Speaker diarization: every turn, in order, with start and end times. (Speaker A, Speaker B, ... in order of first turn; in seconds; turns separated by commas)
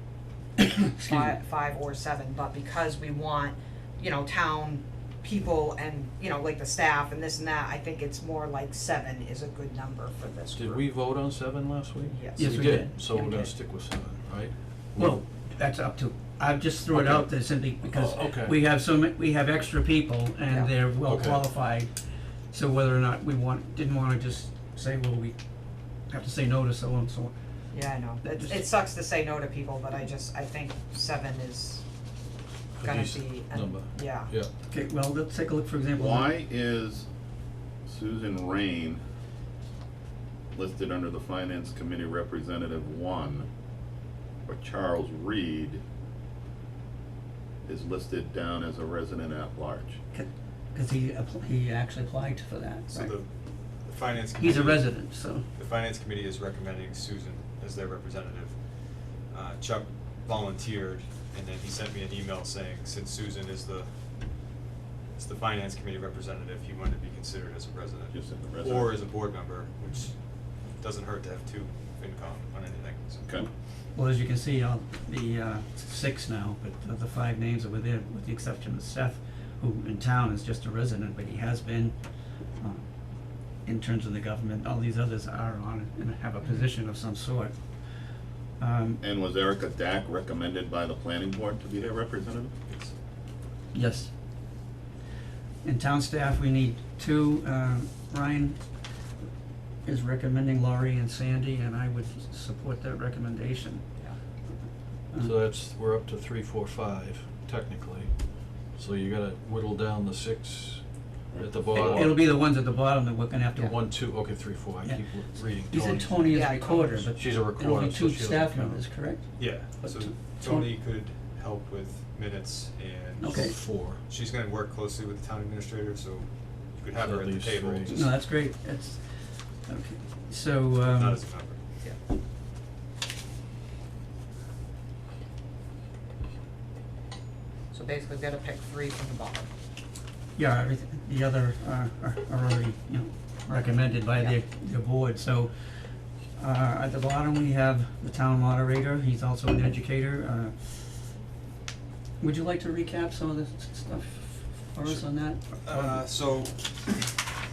Speaker A: 0.6-1.4, Speaker B: 1.0-10.8, Speaker C: 10.6-15.2, Speaker B: 12.1-12.6, Speaker A: 12.4-13.5, Speaker A: 15.0-21.9, Speaker C: 16.9-17.3, Speaker C: 17.8-18.6, Speaker B: 20.5-20.7, Speaker C: 21.0-21.5, Speaker A: 22.5-25.4, Speaker A: 26.1-27.3, Speaker B: 27.7-31.9, Speaker A: 28.2-28.6, Speaker C: 32.8-34.5, Speaker B: 32.8-34.3, Speaker A: 34.7-36.3, Speaker D: 36.0-37.1, Speaker D: 37.9-39.0, Speaker D: 40.5-43.5, Speaker D: 44.5-45.8, Speaker D: 47.7-50.0, Speaker A: 50.1-53.1, Speaker E: 52.9-53.3, Speaker E: 53.8-63.9, Speaker A: 54.4-55.5, Speaker E: 65.2-73.4, Speaker D: 68.1-68.9, Speaker A: 73.9-82.0, Speaker A: 82.6-82.9, Speaker A: 83.7-87.6, Speaker A: 88.6-89.0, Speaker D: 89.0-92.8, Speaker A: 93.7-94.1, Speaker A: 95.6-98.6, Speaker A: 99.8-103.8, Speaker C: 105.2-108.2, Speaker C: 108.7-112.3, Speaker D: 111.3-111.8, Speaker A: 111.7-114.2, Speaker C: 113.6-116.4, Speaker A: 114.8-120.7, Speaker B: 116.3-117.1, Speaker C: 117.1-118.9, Speaker E: 119.4-128.0, Speaker A: 123.2-123.6, Speaker C: 123.3-124.0, Speaker C: 127.0-128.1, Speaker A: 127.9-131.2, Speaker E: 130.8-131.8, Speaker B: 137.7-139.5, Speaker A: 140.4-145.5, Speaker A: 146.4-150.9, Speaker A: 152.2-156.0, Speaker E: 155.6-157.2